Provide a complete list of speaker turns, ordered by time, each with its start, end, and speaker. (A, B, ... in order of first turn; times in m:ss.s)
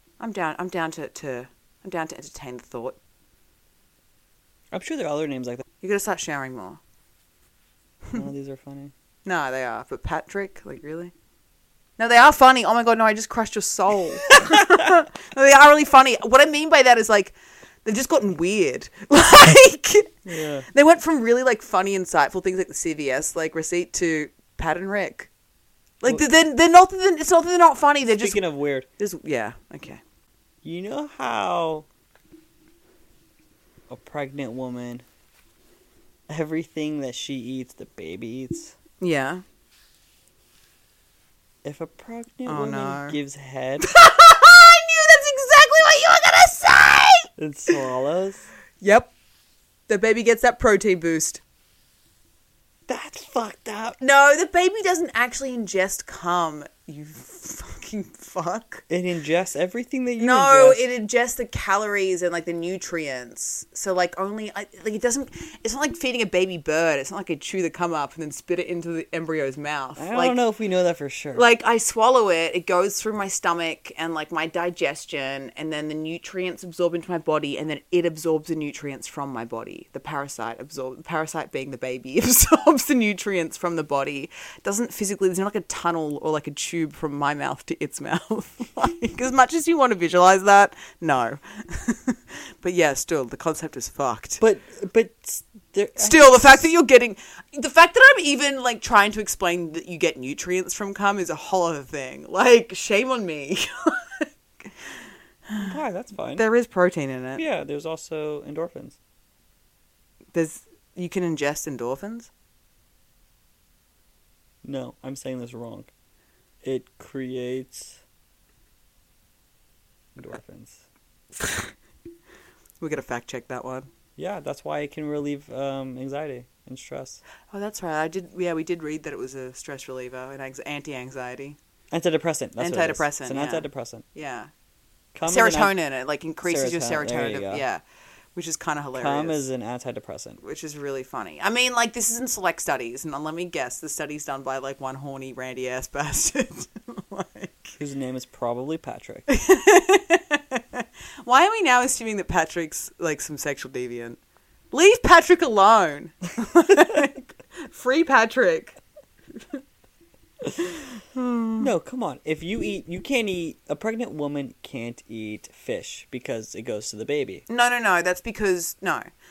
0:00.2-0:03.0 A
0:04.7-0:05.6 B
0:05.8-0:06.8 A
0:08.1-0:08.9 B
0:09.2-0:11.1 A
0:12.0-0:25.3 A
0:20.2-0:20.7 B
0:26.0-0:28.4 A
0:28.1-0:28.8 B
0:29.0-0:30.0 A
0:30.6-0:31.8 B
0:33.9-0:35.0 B
0:36.3-0:38.7 B
0:39.0-0:39.4 A
0:41.6-0:43.8 B
0:42.4-0:43.2 A
0:43.8-0:47.8 A
0:47.4-0:48.4 B
0:48.8-0:49.1 A
0:49.9-0:51.4 A
0:52.9-0:54.0 B
0:54.0-0:58.8 A
0:58.9-1:00.9 B
1:00.2-1:10.4 A
1:10.0-1:11.4 B
1:11.3-1:34.4 A
1:34.4-1:36.7 B
1:36.0-1:44.3 A
1:45.5-1:45.7 A
1:45.6-1:46.4 B
1:46.4-1:47.4 A
1:47.4-1:49.0 B
1:50.3-1:52.3 A
1:54.6-1:55.9 B
1:56.6-1:58.0 B
2:00.1-2:00.8 B
2:02.8-2:03.9 A
2:04.2-2:07.2 B
2:07.5-2:11.6 A
2:11.9-2:14.0 B
2:12.6-2:14.5 A
2:15.1-2:15.8 B
2:15.2-2:17.8 A
2:16.4-2:17.6 B
2:18.3-2:19.4 A
2:18.9-2:20.4 B
2:20.4-2:27.8 A
2:27.8-2:29.3 B
2:29.3-2:34.2 A
2:34.7-2:38.8 A
2:41.1-2:41.7 A
2:41.6-2:47.4 B
2:47.5-2:49.0 A